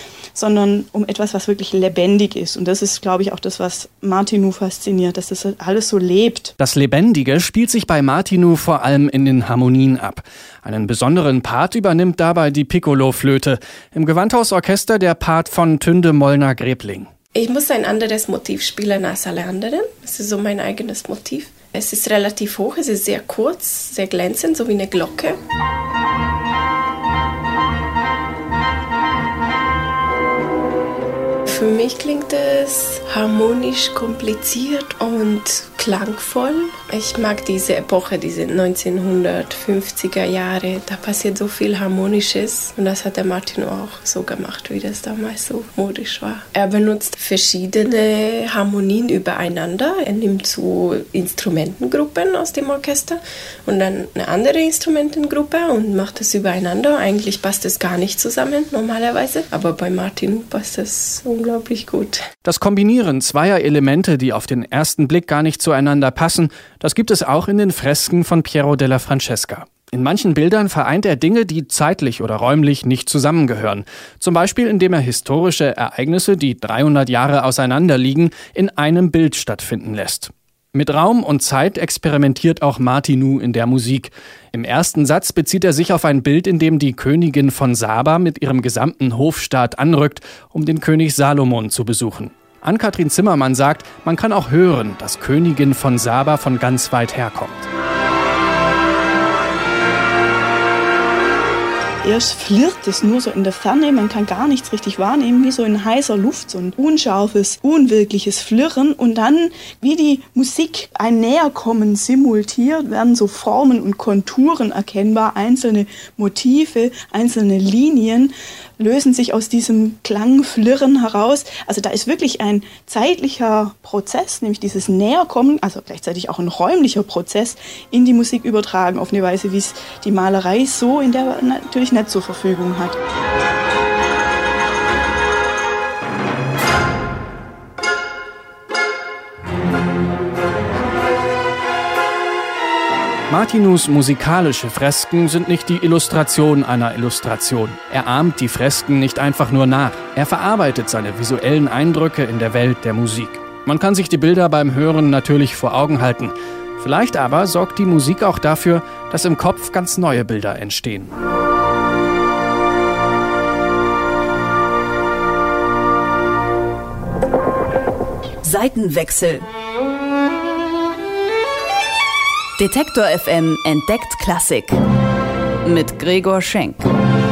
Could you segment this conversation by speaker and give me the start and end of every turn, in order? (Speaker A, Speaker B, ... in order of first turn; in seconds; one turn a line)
Speaker A: 0.3-6.5
Speaker B: 6.6-17.1
Speaker C: 17.3-25.4
Speaker C: 31.4-62.2
Speaker B: 62.4-97.7
Speaker A: 102.0-133.0
Speaker B: 143.3-161.1
Speaker D: 168.4-169.4
Speaker D: 172.6-174.8
Speaker D: 175.6-176.9